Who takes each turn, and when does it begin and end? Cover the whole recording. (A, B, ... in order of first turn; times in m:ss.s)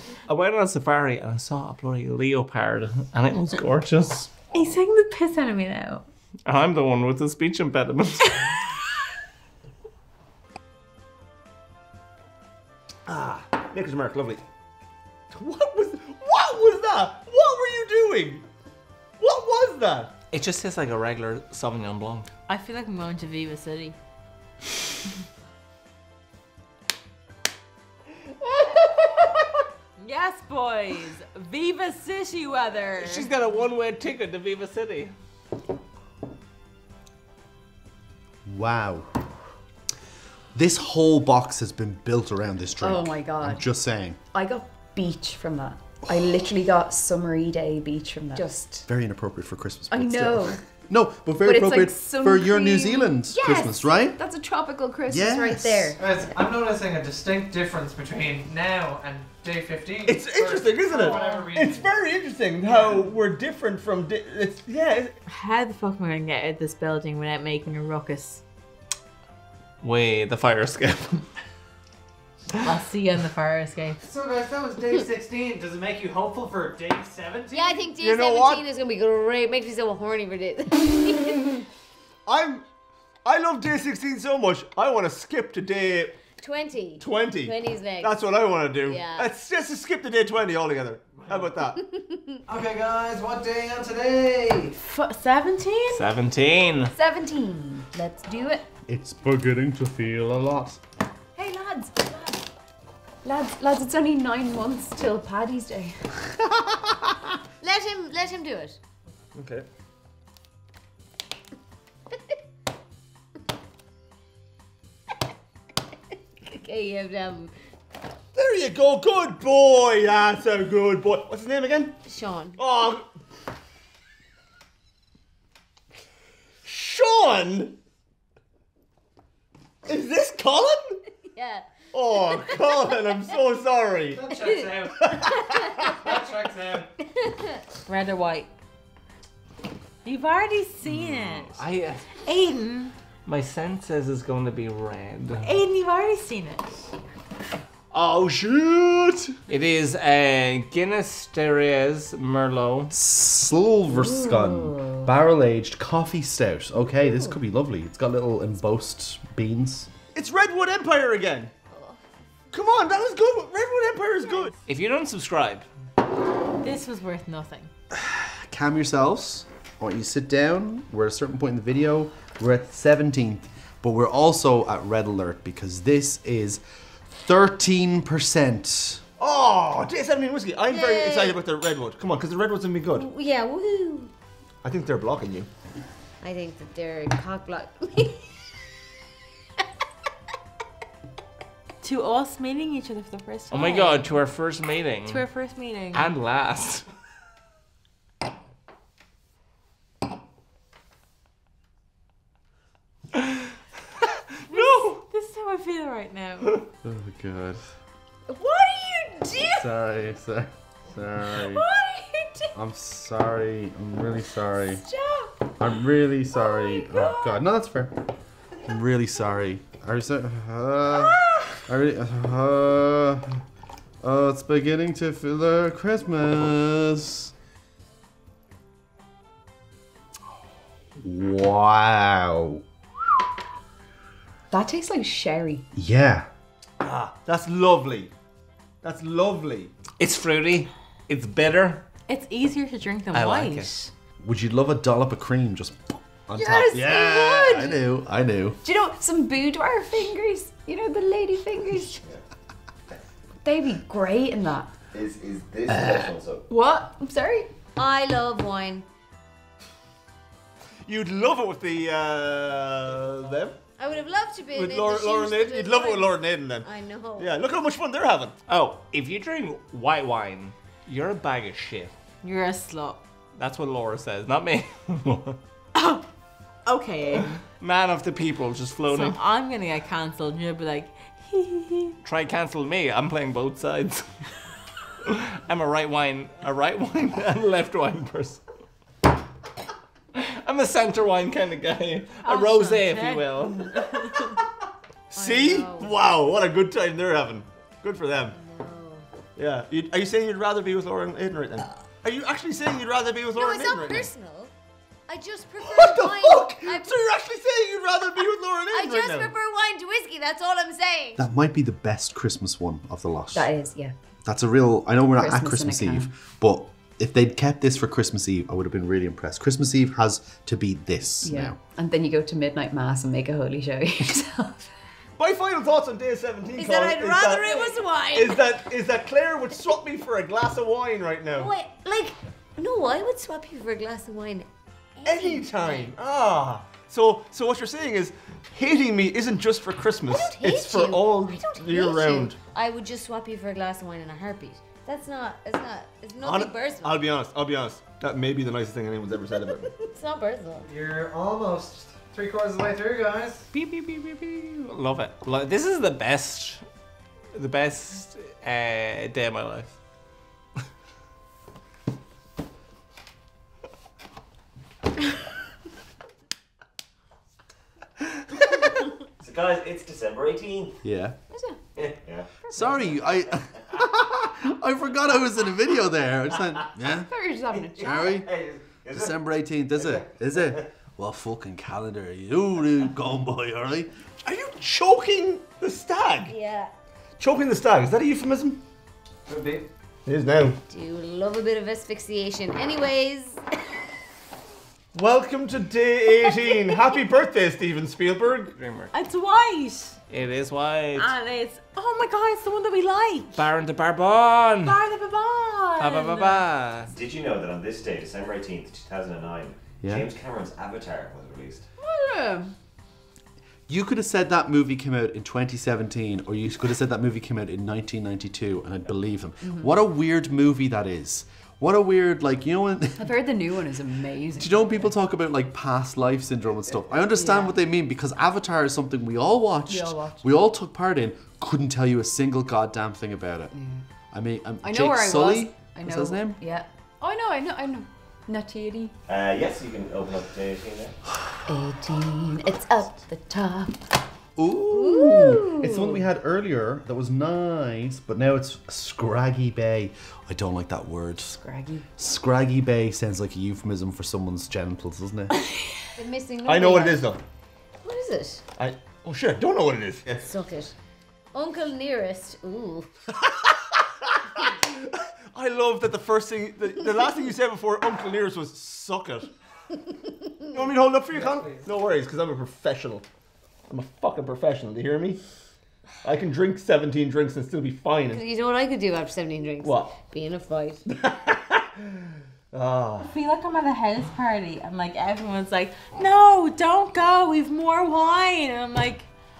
0:00.3-0:04.4 A
0:04.5-0:06.1 B
0:06.5-0:08.6 A
0:13.1-0:14.4 C
0:15.3-0:18.5 C
0:19.2-0:20.1 C
0:20.3-0:22.3 A
0:22.5-0:24.0 B
0:30.0-0:33.3 B
0:33.0-0:35.1 A
0:38.5-0:39.1 D
0:40.5-0:44.2 D
0:42.8-0:43.6 E
0:44.3-0:48.9 E
0:48.9-0:54.2 D
0:49.9-0:50.6 E
0:51.4-0:56.0 E
0:55.1-0:56.0 D
0:56.0-1:01.9 F
1:00.1-1:05.2 C
1:02.7-1:03.0 F
1:05.3-1:08.4 B
1:09.8-1:11.3 A
1:12.6-1:14.0 B
1:14.0-1:17.9 F
1:17.5-1:21.6 G
1:18.0-1:18.7 C
1:22.3-1:22.6 C
1:23.2-1:26.2 C
1:26.4-1:28.2 G
1:27.0-1:31.8 C
1:28.8-1:29.3 G
1:31.2-1:31.5 F
1:31.8-1:32.4 G
1:32.5-1:34.8 F
1:34.8-1:36.1 B
1:35.9-1:36.9 A
1:36.9-1:38.6 E
1:38.1-1:38.6 G
1:38.9-1:40.8 D
1:41.4-1:42.4 E
1:43.2-1:46.0 E
1:46.4-1:47.3 D
1:47.6-1:48.8 G
1:49.4-1:49.7 C
1:56.4-1:57.6 G
1:58.4-2:02.0 C
2:02.1-2:02.6 G
2:02.6-2:03.1 C
2:06.6-2:07.8 C
2:09.9-2:11.0 C
2:11.3-2:13.3 G
2:11.9-2:14.2 C
2:14.2-2:15.1 F
2:14.4-2:15.9 G
2:15.0-2:16.0 C
2:15.9-2:16.9 F
2:17.0-2:17.6 G
2:17.9-2:18.6 B
2:20.0-2:21.6 B
2:20.9-2:22.1 A
2:22.2-2:22.9 B
2:23.3-2:25.6 A
2:25.4-2:26.8 B
2:28.7-2:29.2 D
2:29.5-2:32.9 A
2:32.9-2:39.9 D
2:33.9-2:35.1 E
2:40.2-2:41.5 C
2:41.7-2:42.0 G
2:42.5-2:44.5 C
2:44.7-2:45.7 A
2:46.6-2:47.7 B
2:47.9-2:59.0 D
2:59.2-3:03.1 C
3:00.7-3:01.4 G
3:03.0-3:04.1 G
3:04.6-3:05.5 C
3:06.2-3:08.3 G
3:11.8-3:14.2 B
3:13.5-3:15.3 A
3:15.1-3:16.1 B
3:15.9-3:16.9 A
3:24.5-3:25.0 A
3:24.5-3:26.6 B
3:26.8-3:27.7 D
3:28.3-3:29.7 E
3:29.5-3:31.6 D
3:31.4-3:32.5 B
3:32.5-3:34.8 D
3:34.9-3:35.3 E
3:35.6-3:38.1 D
3:36.4-3:37.3 E
3:38.7-3:43.4 D
3:44.0-3:47.3 D
3:51.0-3:52.6 D
3:54.5-3:55.7 E
3:55.7-3:56.3 D
3:56.8-3:58.1 C
3:58.8-3:59.7 C
4:00.0-4:01.9 A
4:02.1-4:03.9 B
4:03.1-4:03.8 A
4:04.2-4:08.6 D
4:06.4-4:07.8 E
4:08.6-4:12.0 E
4:13.4-4:14.8 E
4:14.9-4:16.4 H
4:16.5-4:17.5 E
4:17.8-4:18.9 G
4:20.9-4:23.6 C
4:23.8-4:27.4 G
4:24.5-4:28.4 C
4:28.5-4:31.9 A
4:32.2-4:33.0 B
4:33.4-4:35.4 A
4:35.8-4:36.0 B
4:36.7-4:37.4 B
4:37.6-4:39.2 A
4:38.9-4:42.0 B
4:42.0-4:44.2 A
4:45.0-4:48.4 A
4:50.2-4:53.9 A
4:52.2-4:54.4 B
4:55.1-4:58.4 C
4:55.2-4:55.9 G
4:58.3-4:59.1 G
4:59.4-5:04.1 C
5:03.4-5:04.5 G
5:05.1-5:07.0 G
5:05.6-5:09.3 C
5:08.7-5:11.2 G
5:11.2-5:13.5 D
5:13.3-5:14.0 E
5:14.2-5:21.6 D
5:15.2-5:16.1 E
5:21.2-5:24.7 E
5:25.2-5:31.5 C
5:26.6-5:28.6 G
5:31.3-5:35.9 G
5:35.0-5:42.4 C
5:40.1-5:47.0 G
5:46.2-5:49.7 C
5:49.7-5:50.7 G
5:50.6-5:53.5 F
5:53.5-5:56.6 A
5:57.3-5:59.8 A
6:09.2-6:10.8 H
6:10.8-6:11.2 D
6:11.3-6:11.6 E
6:11.8-6:13.4 H
6:12.5-6:17.1 D
6:17.1-6:18.2 E
6:17.5-6:18.6 C
6:17.8-6:18.3 D
6:18.3-6:19.2 H
6:18.9-6:23.9 D
6:19.8-6:20.5 H
6:24.2-6:26.3 C
6:26.2-6:26.7 G
6:27.2-6:28.6 C
6:29.3-6:29.7 F
6:30.1-6:30.6 C
6:30.7-6:33.4 G
6:34.9-6:38.5 C
6:38.6-6:38.9 A
6:38.9-6:40.0 B
6:40.1-6:41.1 A
6:41.0-6:43.4 B
6:43.3-6:44.8 A
6:44.7-6:46.5 B
6:45.8-6:46.9 A
6:46.9-6:51.6 H
6:49.8-6:50.1 D
6:51.8-6:52.5 E
6:53.7-7:03.2 D
6:59.5-6:59.7 E
7:03.0-7:04.9 E
7:04.4-7:13.5 D
7:07.2-7:07.6 E
7:09.7-7:10.3 E
7:13.6-7:13.8 E
7:14.1-7:16.4 D
7:14.6-7:18.9 E
7:19.1-7:21.0 H
7:21.5-7:23.8 E
7:24.4-7:31.4 D
7:25.0-7:25.7 G
7:25.2-7:26.0 E
7:31.4-7:31.9 E
7:32.0-7:35.4 D
7:36.0-7:37.1 G
7:36.4-7:37.2 C
7:37.8-7:38.4 G
7:38.6-7:40.3 C
7:40.2-7:40.7 G
7:41.3-7:42.9 G
7:43.2-7:49.3 C
7:49.9-7:50.5 G
7:50.5-7:53.0 C
7:51.1-7:51.7 F
7:53.7-7:55.2 C
7:56.0-7:58.2 C
7:58.1-8:00.8 G
7:59.6-8:00.0 C
8:00.9-8:03.1 C
8:03.0-8:09.1 B